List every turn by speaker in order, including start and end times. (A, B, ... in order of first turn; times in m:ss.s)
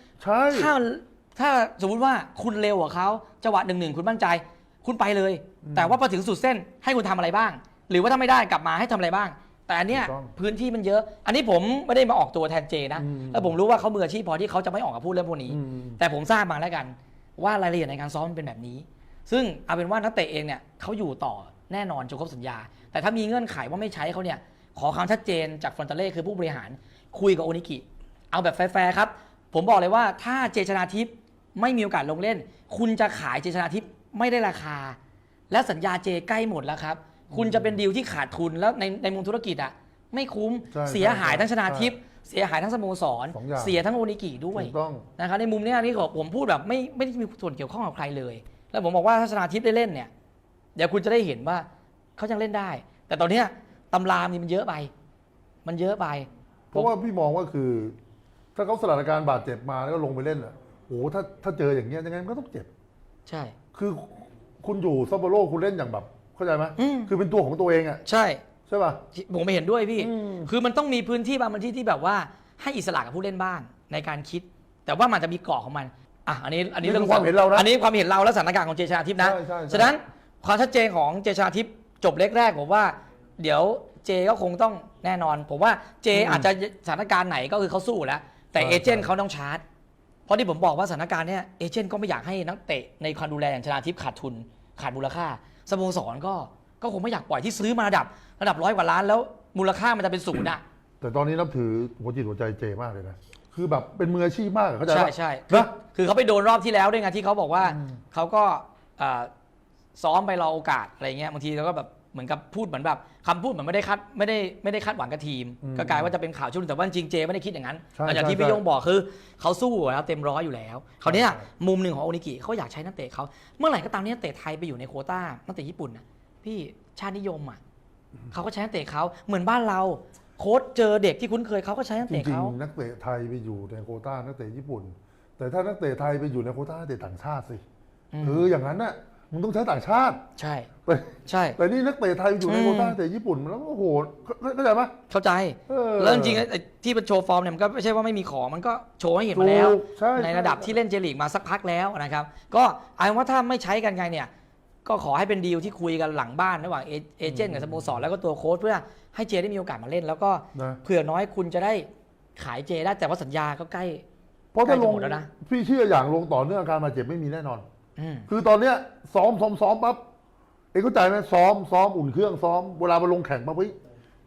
0:00.2-0:00.7 A
0:00.5-0:35.0 B
0:05.6-0:06.0 A
0:09.9-0:10.3 A
0:13.0-0:13.5 A
0:15.5-0:16.0 A
0:35.5-0:50.1 B
0:37.3-0:37.8 A
0:40.7-0:41.9 A
0:43.3-0:43.8 A
0:44.5-0:45.1 A
0:50.8-0:51.7 B
0:52.2-0:54.9 B
0:55.6-0:56.9 B
0:56.7-0:58.0 A
0:58.6-1:02.7 A
1:03.3-1:03.6 B
1:03.7-1:08.0 A
1:06.8-1:07.1 B
1:08.0-1:08.4 B
1:08.7-1:09.0 A
1:09.1-1:29.6 B
1:10.0-1:10.5 A
1:16.8-1:17.7 A
1:19.2-1:20.0 A
1:26.1-1:26.5 A
1:28.6-1:29.1 A
1:30.3-1:40.6 B
1:41.0-1:45.7 A
1:44.9-1:49.3 B
1:47.6-1:48.0 A
1:50.0-2:07.6 B
1:55.6-1:56.1 A
1:58.0-1:58.6 A
2:01.0-2:01.4 A
2:08.3-2:12.6 B
2:12.1-2:17.6 A
2:18.1-2:18.5 B
2:18.2-2:20.2 A
2:20.4-2:20.7 B
2:20.9-2:24.9 A
2:21.3-2:21.6 B
2:22.4-2:23.0 B
2:25.1-2:34.3 B
2:25.7-2:26.5 A
2:29.3-2:30.8 A
2:34.8-2:44.0 B
2:37.2-2:38.0 A
2:40.5-2:40.8 A
2:44.5-2:47.6 A
2:44.6-2:45.3 B
2:48.0-2:48.3 B
2:48.3-2:50.0 A
2:50.7-2:53.8 A